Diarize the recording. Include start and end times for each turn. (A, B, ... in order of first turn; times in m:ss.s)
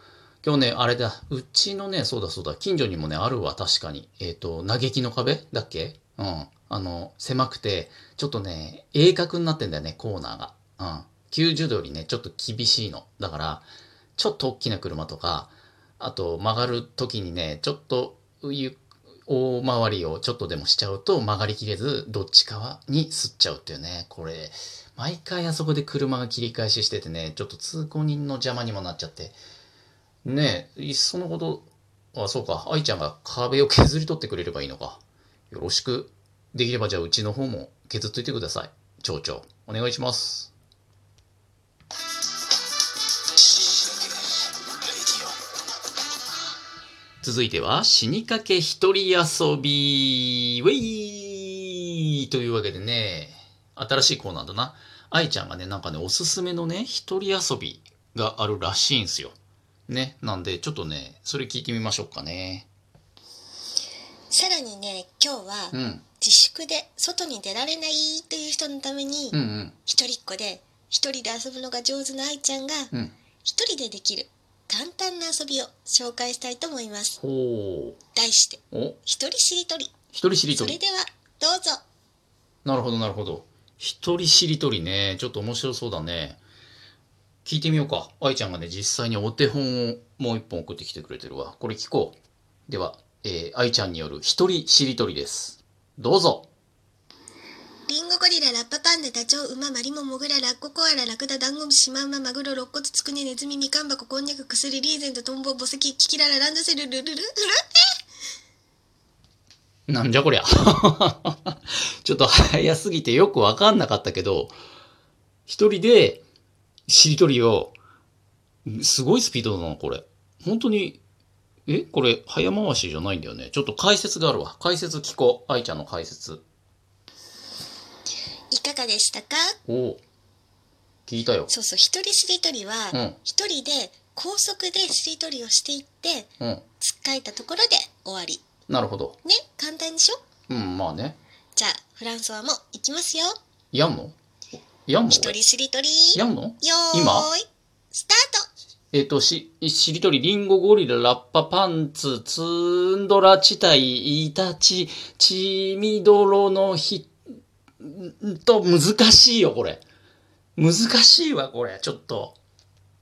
0:00.4-0:13.6 A
0:14.2-0:29.4 A
0:30.2-0:40.5 A
0:47.2-0:59.3 A
0:59.9-1:02.7 A
1:04.3-1:12.9 B
1:05.7-1:06.0 A
1:09.3-1:09.7 A
1:13.4-1:17.2 B
1:17.2-1:18.0 A
1:18.1-1:20.0 B
1:18.7-1:19.0 A
1:20.1-1:20.8 A
1:20.5-1:21.8 B
1:22.6-1:26.4 A
1:27.4-1:36.5 A
1:37.9-1:47.9 B
1:49.9-1:54.5 A
1:55.5-1:56.2 A
1:56.9-1:57.7 A
1:58.6-2:01.0 A
2:01.7-2:06.4 A
2:08.5-2:09.6 B
2:09.6-2:10.0 A
2:11.1-2:11.5 A
2:11.5-2:18.4 B
2:12.9-2:13.2 A
2:18.7-2:19.2 A
2:19.2-2:20.2 B
2:20.5-2:21.2 A
2:21.6-2:23.4 B
2:23.7-2:24.2 A
2:24.8-2:25.4 A
2:25.1-2:28.5 B
2:26.1-2:27.3 A
2:28.9-2:37.1 A
2:37.8-2:39.8 A
2:40.6-2:42.4 A